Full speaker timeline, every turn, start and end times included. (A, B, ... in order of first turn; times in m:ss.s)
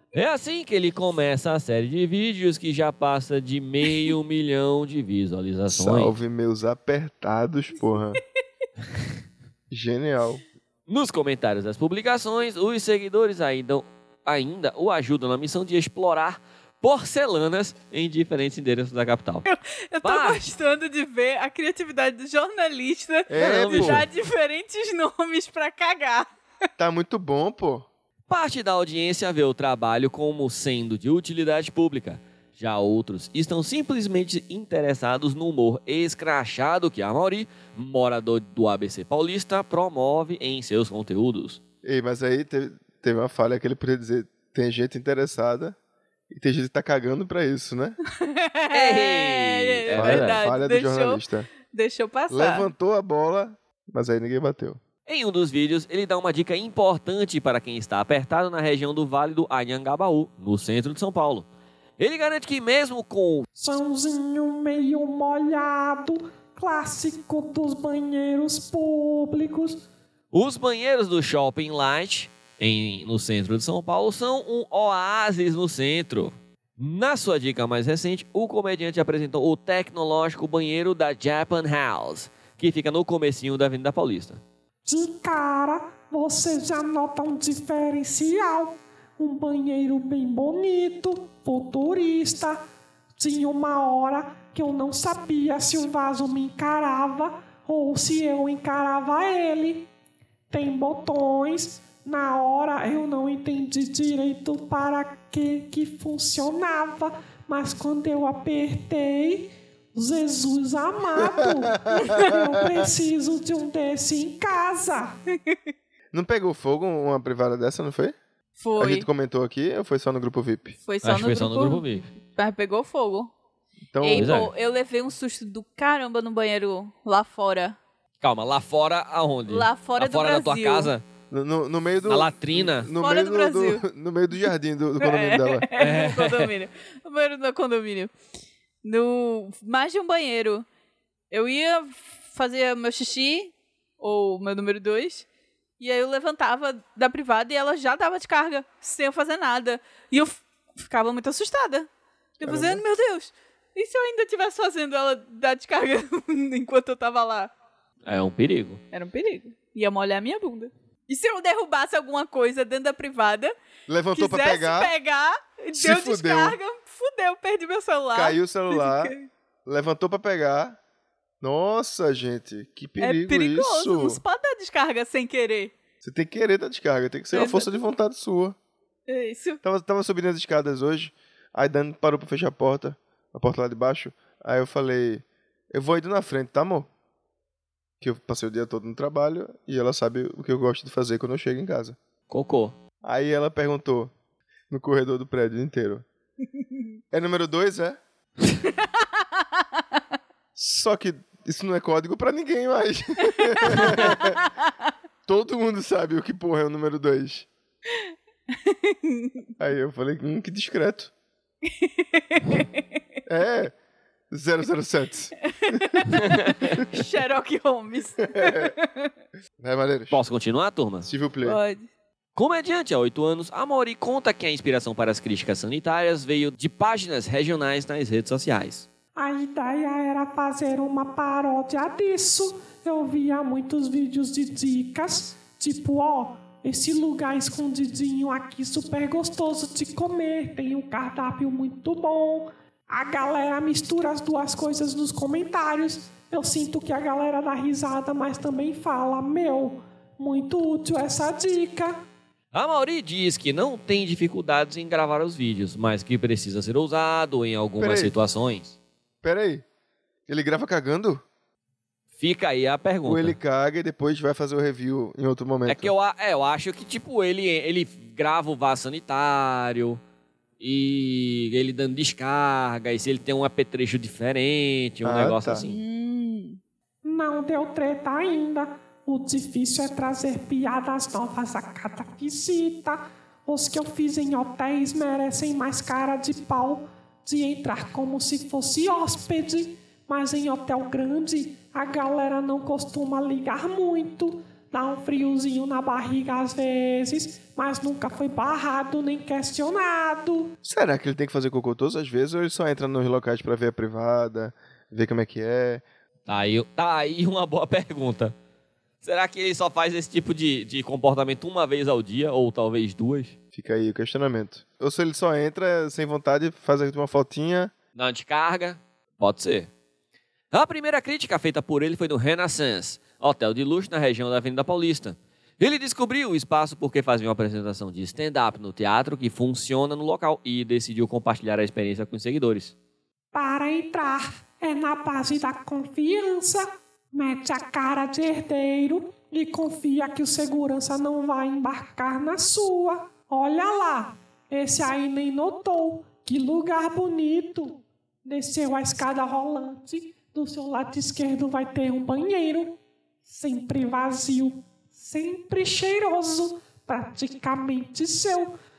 0:00.1-0:06.1 A
0:05.7-0:08.2 B
0:09.7-0:10.4 B
0:10.9-0:19.4 A
0:19.4-0:26.3 C
0:20.0-0:20.4 A
0:23.3-0:24.1 B
0:23.4-0:24.0 A
0:26.8-0:27.9 B
0:28.3-0:41.6 A
0:41.8-0:45.8 B
0:46.3-0:48.0 B
0:48.2-0:52.7 C
0:48.7-0:50.4 A
0:49.9-0:51.5 B
0:52.3-0:54.8 B
0:55.0-1:01.5 A
1:02.0-1:03.4 A
1:03.6-1:09.8 D
1:10.3-1:24.4 A
1:24.8-1:32.6 D
1:33.2-1:39.9 D
1:40.5-1:55.2 D
1:51.3-1:52.8 B
1:56.1-1:58.2 B
1:58.6-1:59.1 C
1:58.8-2:00.8 B
2:00.8-2:03.3 C
2:01.0-2:02.1 A
2:03.9-2:04.3 B
2:04.0-2:07.8 C
2:04.1-2:04.5 A
2:08.2-2:11.0 A
2:09.5-2:10.9 C
2:11.3-2:15.7 B
2:12.1-2:12.9 A
2:13.0-2:13.8 C
2:15.0-2:18.1 C
2:15.8-2:16.5 A
2:18.8-2:20.7 C
2:21.3-2:25.2 C
2:25.8-2:31.9 C
2:32.4-2:37.5 C
2:32.4-2:32.8 B
2:38.0-2:38.8 A
2:38.9-2:43.5 C
2:43.9-2:44.9 B
2:44.1-2:49.3 C
2:45.8-2:46.6 B
2:48.1-2:49.1 B
2:49.6-2:50.8 B
2:51.4-2:54.2 B
2:53.0-2:55.7 C
2:56.0-2:58.6 B
2:57.3-2:57.7 C
2:59.1-2:59.6 C
2:59.6-3:06.9 B
3:08.0-3:12.0 B
3:12.3-3:12.8 A
3:13.0-3:14.1 B
3:14.7-3:16.0 B
3:17.1-3:18.0 B
3:20.6-3:24.4 B
3:23.6-3:24.3 C
3:25.3-3:27.5 B
3:28.5-3:29.4 C
3:29.6-3:31.1 B
3:31.6-3:32.7 C
3:33.2-3:33.7 B
3:34.3-3:35.8 B
3:35.5-3:39.1 C
3:36.1-3:36.6 A
3:38.3-3:38.7 B
3:39.6-3:40.2 B
3:40.1-3:41.0 A
3:41.0-3:41.6 B
3:41.4-3:41.9 C
3:42.4-3:48.9 A
3:49.2-4:12.0 D
4:12.5-4:18.8 A
4:17.8-4:18.2 B
4:19.2-4:19.6 B
4:20.3-4:21.2 B
4:22.2-4:23.4 A
4:23.0-4:25.9 B
4:25.6-4:30.0 A
4:30.6-4:35.8 A
4:35.0-4:35.6 B
4:35.6-4:36.6 C
4:37.0-5:00.5 D
5:00.6-5:05.8 B
5:06.3-5:08.3 A
5:09.0-5:13.4 A
5:13.5-5:17.7 B
5:18.0-5:19.7 A
5:20.5-5:32.7 A
5:33.3-5:58.6 D